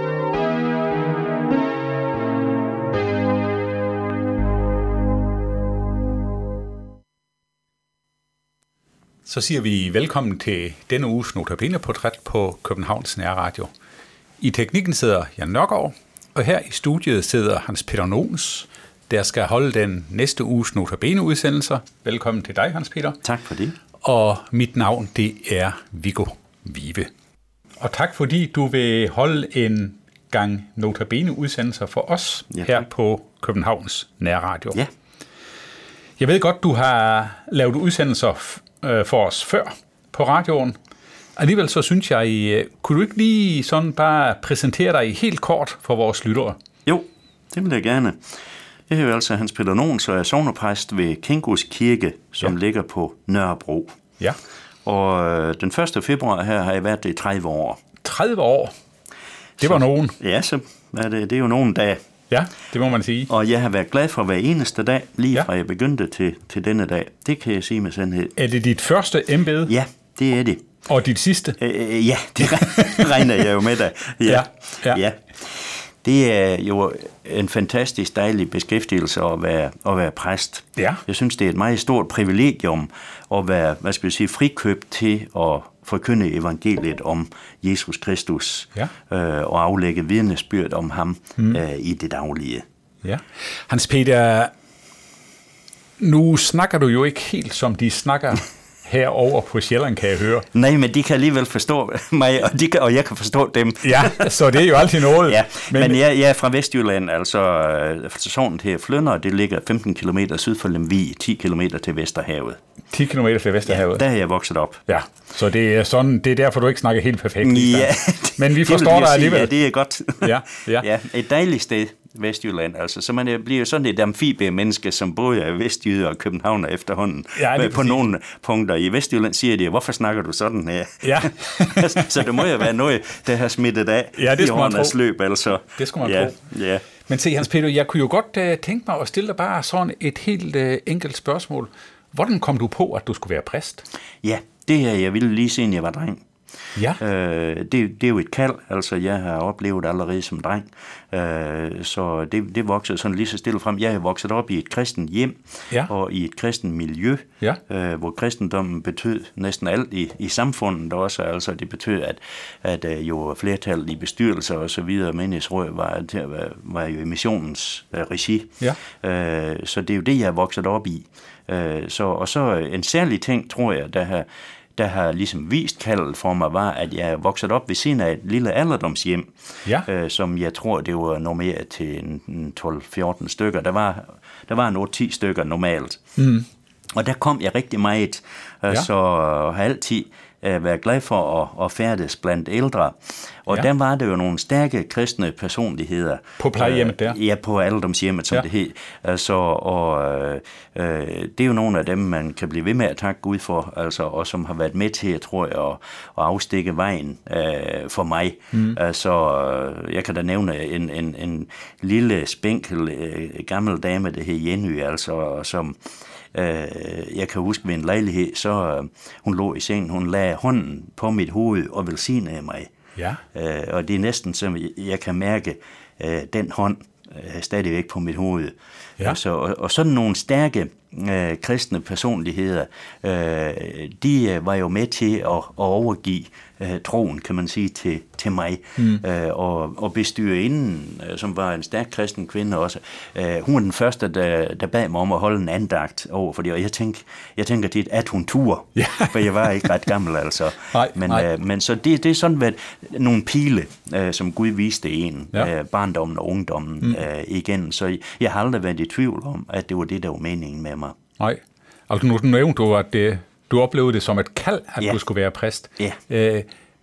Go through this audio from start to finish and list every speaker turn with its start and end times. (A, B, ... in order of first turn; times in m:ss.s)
0:09.2-0:13.7 A
0:14.4-0:23.2 A
0:23.2-0:23.8 B
0:24.0-0:27.1 A
0:27.8-0:34.8 A
0:32.5-0:32.8 B
0:36.2-0:40.8 A
0:41.4-0:46.6 A
0:46.8-0:48.2 B
0:48.9-0:53.9 B
0:54.8-0:57.8 B
0:58.0-0:58.7 A
0:59.6-1:00.2 A
0:59.6-1:02.0 B
1:02.3-1:03.3 A
1:03.3-1:08.4 B
1:08.4-1:09.7 A
1:09.6-1:10.6 B
1:10.9-1:11.6 A
1:11.6-1:32.6 B
1:12.8-1:13.3 A
1:14.3-1:15.0 A
1:33.0-1:34.5 A
1:36.0-1:40.4 A
1:40.5-1:52.6 B
1:43.8-1:46.0 A
1:52.9-1:54.0 A
1:53.7-1:54.9 B
1:54.9-1:59.5 A
1:57.4-2:16.9 B
2:00.2-2:00.8 A
2:07.4-2:08.0 A
2:11.0-2:12.5 A
2:14.2-2:15.0 A
2:15.8-2:16.4 A
2:17.1-2:23.8 A
2:24.2-2:26.2 B
2:27.0-3:06.0 B
3:06.2-3:06.5 A
3:06.9-3:35.8 B
3:16.4-3:17.2 A
3:36.3-3:42.7 B
3:43.3-4:20.9 B
4:08.8-4:09.6 A
4:10.7-4:11.3 A
4:21.2-4:26.5 A